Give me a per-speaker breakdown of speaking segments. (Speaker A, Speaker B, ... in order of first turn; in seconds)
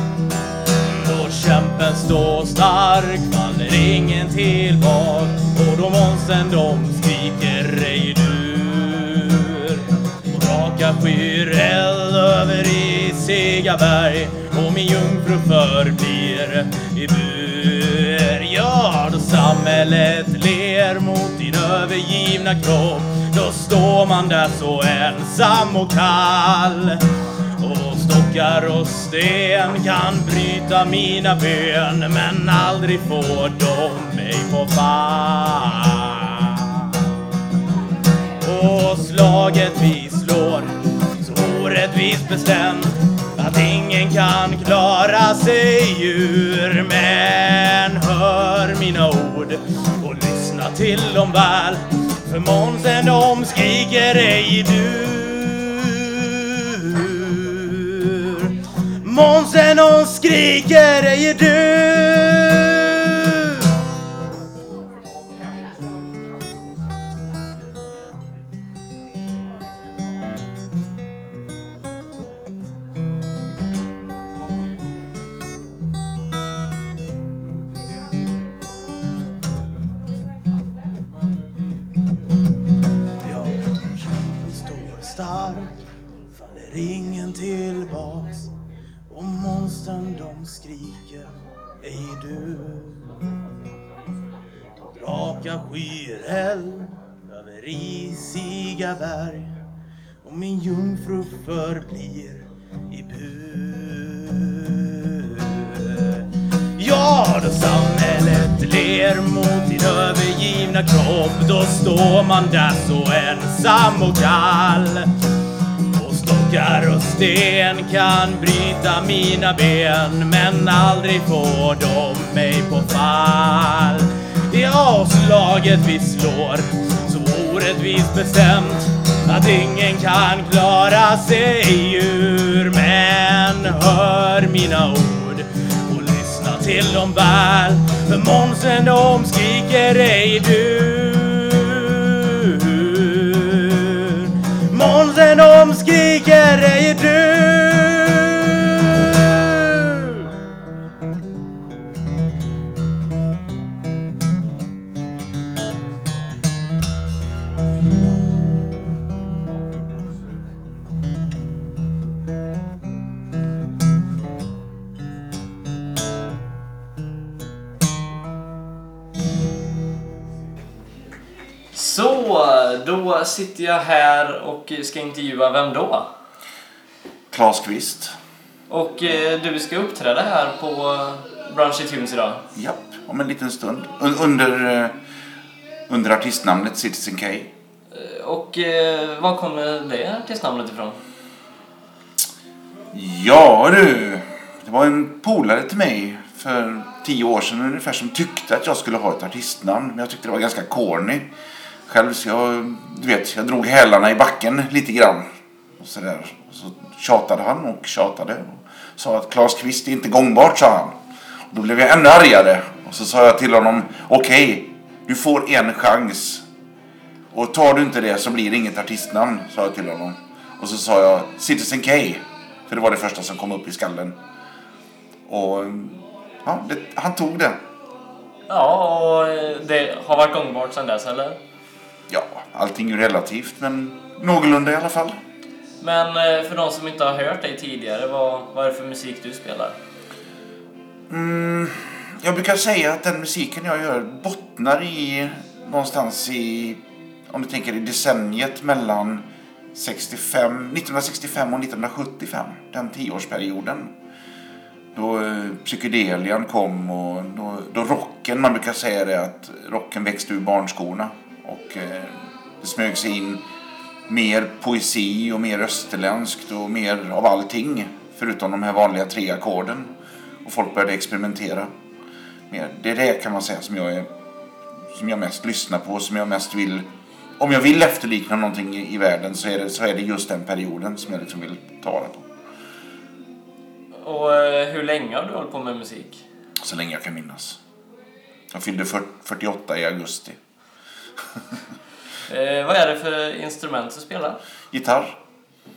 Speaker A: 0.8-27.0, 27.6-37.0, 38.4-58.5, 59.0-63.6, 83.2-85.7, 86.3-88.5, 89.1-93.0, 94.9-99.5, 100.2-115.1, 115.9-150.2
Speaker B: 171.7-176.1, 178.7-182.4, 187.9-191.0, 228.5-231.4, 235.8-239.8, 284.0-286.2, 292.3-294.4
Speaker C: 177.3-178.2, 182.6-184.9, 185.9-187.5, 192.9-201.3, 201.9-205.3, 205.8-211.0, 211.5-216.4, 217.3-224.2, 225.3-227.6, 232.1-235.2, 241.1-253.9, 254.9-263.4, 264.1-269.9, 270.4-271.7, 272.5-274.1, 274.9-276.9, 277.4-282.3, 286.6-287.6, 288.5-290.4, 294.7-295.2